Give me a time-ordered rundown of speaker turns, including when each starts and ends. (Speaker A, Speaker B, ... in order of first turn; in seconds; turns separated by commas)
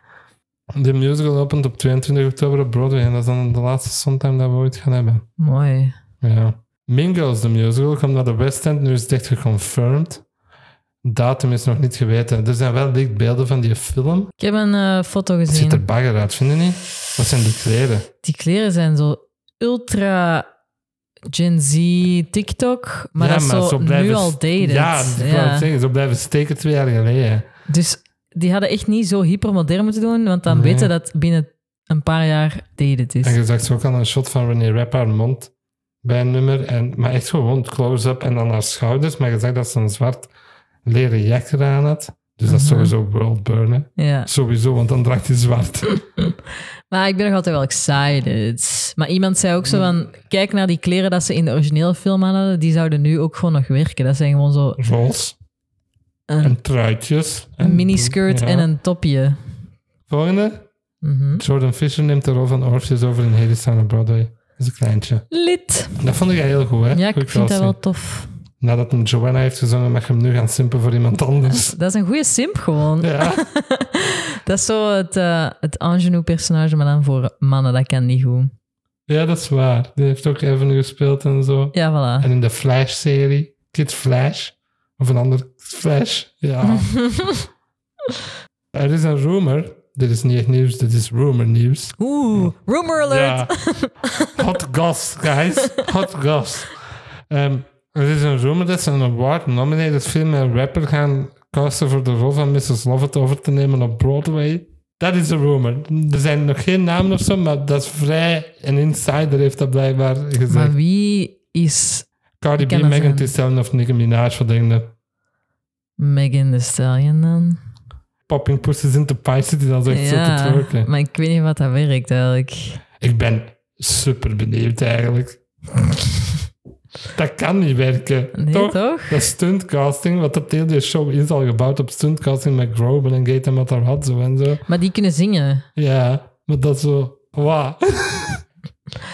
Speaker A: 0.7-5.2, Speaker B: 5.4-5.9, Speaker A: 6.2-10.2, Speaker A: 11.0-14.3, Speaker B: 14.4-15.8, Speaker A: 15.5-18.1, Speaker B: 18.2-20.5, Speaker B: 21.3-25.7, Speaker A: 23.2-27.5, Speaker B: 27.7-33.4, Speaker A: 30.5-30.9, Speaker A: 33.2-35.5, Speaker A: 36.0-40.3, Speaker A: 40.8-46.0, Speaker B: 42.5-42.9, Speaker B: 44.0-44.3, Speaker B: 46.9-54.8, Speaker A: 54.8-55.4, Speaker B: 56.3-56.6, Speaker A: 56.4-58.7, Speaker B: 57.6-59.4, Speaker A: 60.1-60.7, Speaker B: 61.0-61.4, Speaker A: 61.4-65.3, Speaker B: 65.3-66.0, Speaker A: 66.0-67.8, Speaker B: 66.9-68.3, Speaker A: 68.6-71.7, Speaker B: 71.5-78.5, Speaker A: 73.0-73.4, Speaker A: 79.1-87.0, Speaker B: 81.7-82.3, Speaker B: 86.7-87.4, Speaker A: 88.7-92.5, Speaker B: 92.0-94.4, Speaker A: 93.0-93.5, Speaker A: 94.2-96.7, Speaker A: 97.3-110.7, Speaker B: 110.5-113.3, Speaker A: 112.4-114.9, Speaker B: 116.0-117.6, Speaker A: 118.3-120.9, Speaker B: 119.9-122.8, Speaker A: 123.0-125.4, Speaker A: 127.1-134.7, Speaker B: 128.3-129.3, Speaker B: 134.7-135.7, Speaker A: 135.8-138.4